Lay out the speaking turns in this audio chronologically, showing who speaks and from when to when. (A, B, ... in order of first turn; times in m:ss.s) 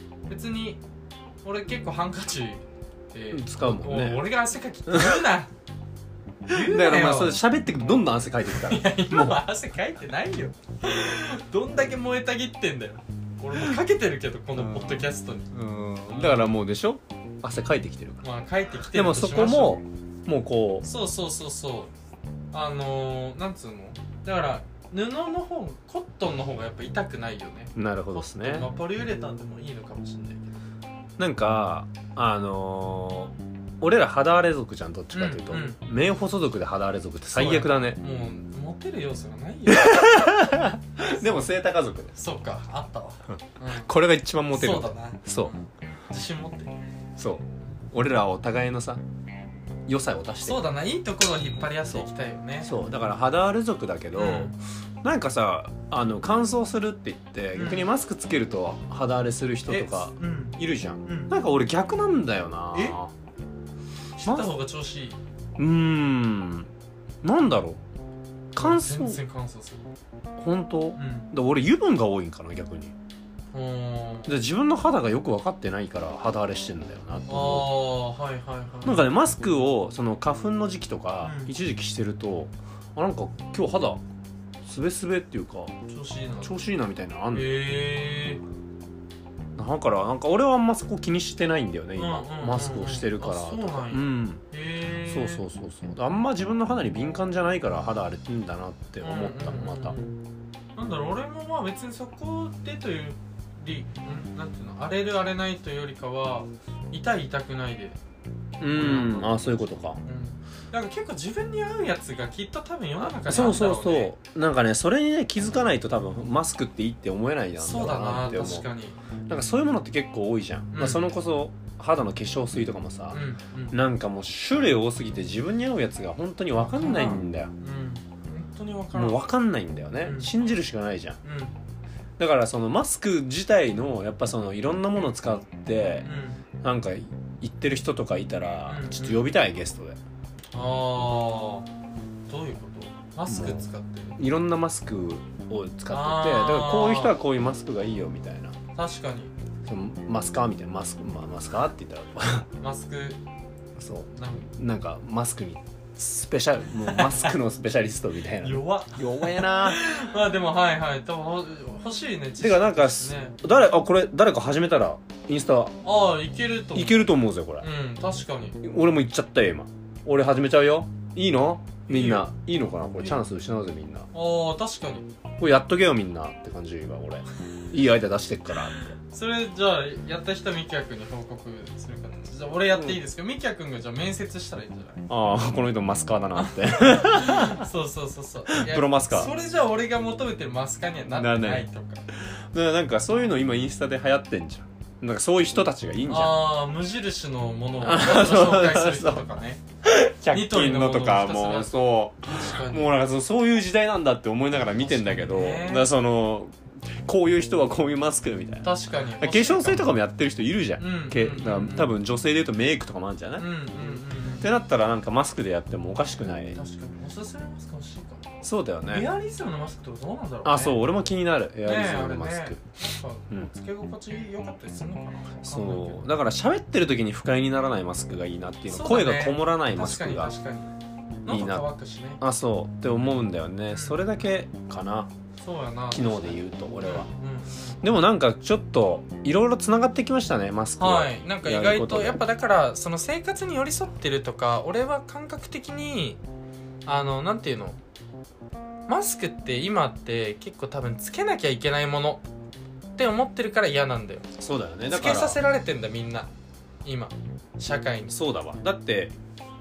0:00.3-0:00.8 A
0:01.4-0:05.5 A
0:03.3-0:04.2 B
0:04.9-0:05.2 B
0:06.5-0:07.4 A
0:06.5-0:09.4 B
0:08.5-0:15.5 A
0:13.5-0:13.8 B
0:14.6-0:18.2 B
0:16.1-0:16.5 A
0:18.2-0:19.8 A
0:18.9-0:20.9 B
0:20.8-0:21.9 A
0:22.5-0:30.6 A
0:27.8-0:28.7 B
0:31.2-0:38.0 B
0:35.1-0:35.8 A
0:37.3-0:41.5 A
0:39.7-0:42.1 B
0:42.1-0:43.9 A
0:43.3-0:45.5 B
0:44.5-0:46.8 A
0:47.2-0:49.0 B
0:49.9-0:50.7 B
0:50.4-0:52.7 A
0:52.6-1:03.1 B
0:54.1-0:54.6 A
0:57.6-0:57.9 A
0:59.7-1:01.4 A
1:04.2-1:05.2 A
1:05.6-1:06.7 B
1:07.2-1:07.8 B
1:08.5-1:09.2 B
1:08.6-1:09.9 A
1:10.4-1:12.9 B
1:11.0-1:11.3 A
1:13.5-1:14.4 A
1:14.3-1:17.7 B
1:17.3-1:19.1 A
1:18.8-1:24.0 B
1:21.2-1:21.5 A
1:24.6-1:25.7 B
1:25.9-1:26.6 A
1:26.4-1:27.6 B
1:27.3-1:28.4 A
1:29.6-1:34.4 B
1:32.0-1:35.4 A
1:35.1-1:40.0 B
1:39.0-1:40.2 A
1:40.8-1:48.0 A
1:48.6-1:50.0 B
1:48.6-1:49.5 A
1:50.0-1:54.1 A
1:53.0-1:58.7 B
1:57.6-1:59.0 A
1:59.3-2:07.5 B
2:00.7-2:01.1 A
2:03.1-2:03.8 A
2:06.6-2:09.2 A
2:08.9-2:11.2 B
2:10.0-2:10.3 A
2:11.2-2:11.6 A
2:12.2-2:16.1 B
2:16.0-2:16.4 A
2:16.6-2:20.0 B
2:18.7-2:19.3 A
2:20.5-2:21.7 A
2:22.3-2:24.2 A
2:23.3-2:23.6 B
2:24.2-2:28.6 B
2:25.9-2:27.2 A
2:28.8-2:29.3 A
2:29.6-2:32.5 B
2:32.6-2:33.2 A
2:33.8-2:39.8 B
2:34.1-2:34.5 A
2:36.8-2:37.4 A
2:38.4-2:43.4 A
2:42.4-2:45.8 B
2:45.8-2:48.6 A
2:46.7-2:47.7 B
2:48.6-2:54.1 B
2:51.9-2:52.3 A
2:54.1-2:55.1 A
2:55.4-2:59.0 B
2:59.1-3:05.1 A
3:05.1-3:07.7 B
3:06.4-3:12.1 A
3:08.5-3:09.3 B
3:11.2-3:11.7 B
3:12.5-3:16.5 B
3:16.1-3:19.6 A
3:17.8-3:19.3 B
3:19.8-3:33.5 B
3:20.3-3:22.9 A
3:24.8-3:25.9 A
3:28.6-3:29.9 A
3:30.8-3:32.0 A
3:33.4-3:34.5 A
3:34.4-3:36.6 B
3:36.5-3:40.8 A
3:38.4-3:39.1 B
3:40.4-3:42.6 B
3:41.6-3:46.1 A
3:45.4-3:50.3 B
3:48.7-3:50.7 A
3:51.2-3:52.2 A
3:51.3-3:51.7 B
3:52.2-3:55.1 B
3:53.7-3:54.0 A
3:55.4-3:57.8 A
3:55.9-3:57.1 B
3:57.8-4:02.2 B
4:00.8-4:06.2 A
4:06.9-4:07.8 A
4:08.9-4:12.2 A
4:13.0-4:14.3 A
4:14.4-4:15.4 B
4:14.9-4:16.3 A
4:16.8-4:18.2 A
4:18.1-4:19.1 B